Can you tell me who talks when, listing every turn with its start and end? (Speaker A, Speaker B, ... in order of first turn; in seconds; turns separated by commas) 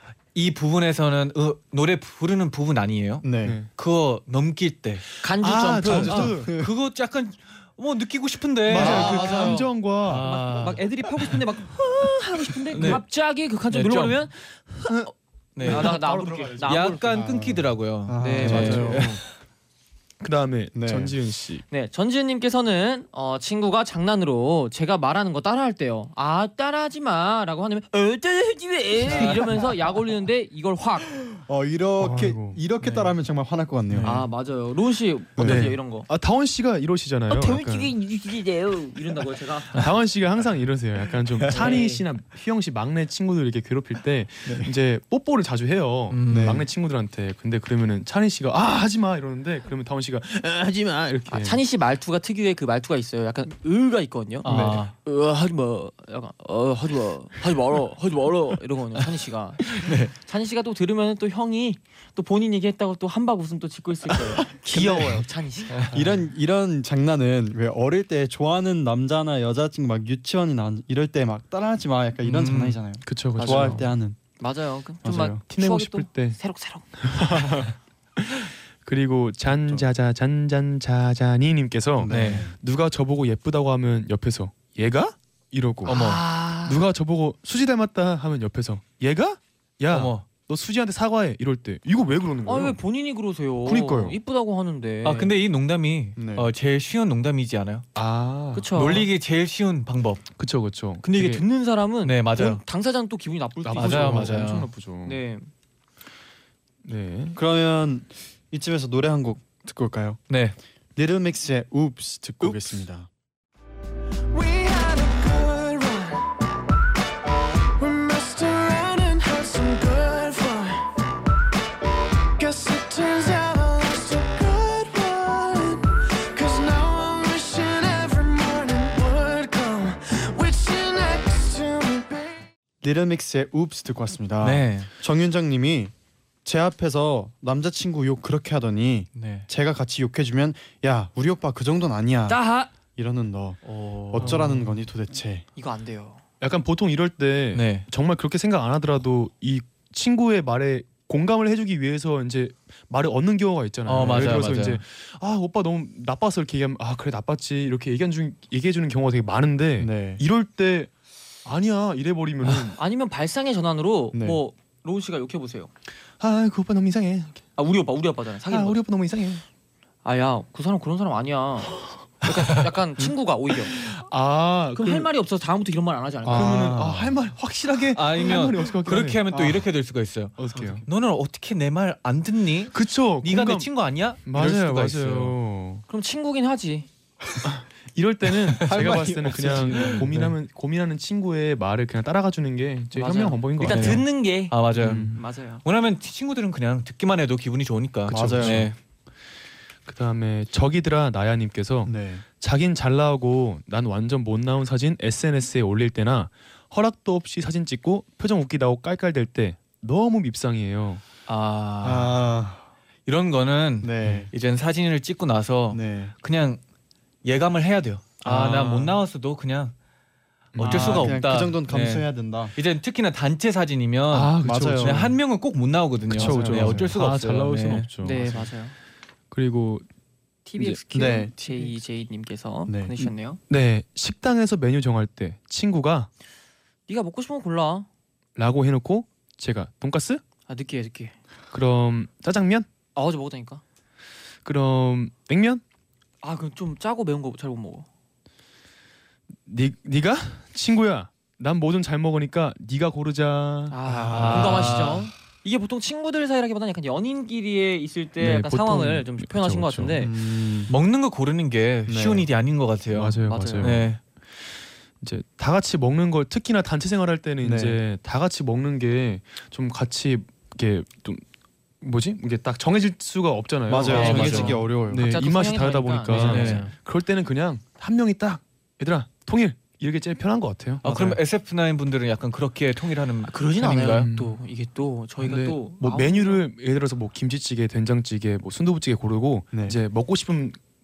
Speaker A: 0.3-5.1, Speaker B: 3.2-3.6, Speaker C: 3.4-3.7, Speaker D: 5.2-6.3, Speaker C: 5.2-6.6, Speaker B: 5.9-6.7, Speaker A: 5.9-10.8, Speaker C: 8.7-10.3, Speaker D: 8.7-17.2, Speaker A: 12.8-13.0, Speaker A: 13.7-14.2, Speaker C: 14.8-15.1, Speaker A: 15.6-15.9, Speaker C: 15.6-17.3, Speaker A: 16.6-19.2, Speaker B: 17.3-19.2, Speaker D: 18.2-19.1, Speaker C: 18.4-19.2, Speaker C: 20.2-21.6, Speaker B: 20.7-21.1, Speaker D: 21.7-31.1, Speaker B: 29.1-29.4, Speaker B: 31.3-34.1, Speaker C: 32.0-32.6, Speaker D: 32.8-33.1, Speaker A: 33.9-34.2, Speaker D: 34.0-36.1, Speaker B: 35.4-35.7, Speaker C: 35.4-38.0, Speaker D: 37.3-39.9, Speaker C: 39.7-51.6, Speaker D: 41.5-42.1, Speaker B: 44.5-44.7, Speaker A: 46.1-46.6, Speaker B: 46.3-46.7, Speaker D: 51.3-65.8, Speaker A: 54.4-54.9, Speaker B: 54.5-54.8, Speaker A: 59.7-60.1, Speaker B: 64.7-65.2, Speaker A: 65.7-66.0, Speaker B: 65.9-74.2, Speaker A: 72.2-72.8, Speaker C: 73.1-73.9, Speaker D: 73.4-73.9, Speaker D: 74.4-76.9, Speaker B: 75.0-75.4, Speaker C: 75.5-76.4, Speaker C: 77.0-92.8, Speaker B: 79.5-79.9, Speaker B: 82.0-82.6, Speaker A: 82.1-82.5, Speaker D: 85.8-86.8, Speaker A: 85.9-86.2, Speaker A: 89.9-90.3, Speaker D: 92.5-95.3, Speaker C: 93.7-94.2, Speaker A: 95.0-97.9, Speaker B: 96.2-96.5, Speaker C: 98.0-98.8, Speaker D: 98.5-99.1, Speaker A: 98.7-100.3, Speaker C: 100.4-101.4, Speaker D: 101.0-104.5, Speaker A: 102.0-102.6, Speaker C: 103.6-105.2, Speaker A: 103.8-104.7, Speaker D: 105.0-105.5, Speaker C: 106.8-107.4, Speaker B: 107.3-110.2, Speaker A: 110.3-110.6, Speaker B: 111.0-113.1, Speaker E: 114.3-116.2, Speaker E: 117.8-120.8, Speaker E: 122.4-132.3, Speaker B: 132.8-135.9, Speaker A: 134.4-134.9, Speaker B: 136.4-142.4, Speaker A: 139.2-139.5, Speaker D: 142.3-142.7, Speaker B: 143.0-145.4, Speaker A: 143.6-144.7, Speaker C: 144.2-144.6, Speaker D: 145.6-146.2, Speaker C: 146.4-160.9, Speaker A: 147.5-147.9, Speaker A: 153.9-154.8, Speaker B: 154.0-154.4, Speaker B: 159.8-160.2, Speaker C: 161.4-162.8, Speaker D: 162.8-165.7, Speaker B: 164.1-164.4, Speaker C: 166.2-167.4, Speaker D: 167.6-168.8, Speaker C: 168.5-169.4, Speaker D: 170.1-173.8, Speaker C: 173.7-175.1, Speaker D: 174.8-176.8, Speaker C: 176.2-179.2, Speaker B: 176.3-177.2, Speaker A: 177.9-185.4, Speaker B: 179.3-179.7, Speaker C: 180.4-180.8, Speaker B: 180.5-180.8, Speaker C: 182.7-183.7, Speaker C: 184.2-185.8, Speaker D: 185.9-186.9, Speaker C: 187.4-194.1, Speaker A: 188.6-190.3, Speaker B: 188.7-190.3, Speaker D: 192.9-194.6, Speaker A: 193.6-198.8, Speaker C: 194.7-195.2, Speaker D: 195.1-195.6, Speaker B: 198.1-198.7, Speaker C: 198.1-198.7, Speaker C: 199.9-211.0, Speaker B: 201.8-202.2, Speaker A: 211.3-212.3, Speaker B: 211.8-212.7, Speaker A: 213.1-216.6, Speaker B: 213.8-214.3, Speaker B: 215.7-216.1, Speaker A: 217.2-219.7, Speaker B: 218.2-219.0, Speaker C: 220.5-221.2, Speaker A: 220.6-227.9, Speaker B: 220.6-222.5, Speaker C: 224.1-225.1, Speaker B: 224.4-225.2, Speaker C: 226.1-228.5, Speaker B: 226.1-226.9, Speaker D: 228.0-228.8, Speaker C: 229.3-229.8, Speaker D: 230.5-233.4, Speaker B: 230.9-231.7, Speaker B: 232.7-233.1, Speaker C: 233.5-236.1, Speaker D: 236.9-237.9, Speaker C: 238.4-240.2, Speaker D: 240.5-241.1, Speaker C: 241.5-242.7, Speaker D: 242.9-243.6, Speaker C: 244.4-245.6, Speaker D: 246.2-247.9, Speaker C: 249.4-253.8, Speaker D: 253.7-260.1, Speaker B: 253.9-254.9, Speaker A: 254.1-255.1, Speaker C: 258.2-260.0, Speaker B: 260.0-260.7, Speaker A: 260.7-264.0, Speaker B: 261.9-262.3, Speaker C: 262.9-263.9, Speaker D: 263.3-263.8, Speaker C: 265.0-271.2, Speaker B: 267.4-267.8, Speaker C: 271.8-280.9, Speaker B: 273.7-275.1, Speaker A: 273.8-274.6, Speaker D: 273.8-276.7, Speaker A: 276.1-276.7, Speaker B: 280.8-281.2, Speaker A: 280.8-284.1, Speaker D: 283.3-286.4, Speaker C: 283.8-284.4, Speaker C: 285.2-290.6, Speaker B: 289.5-289.8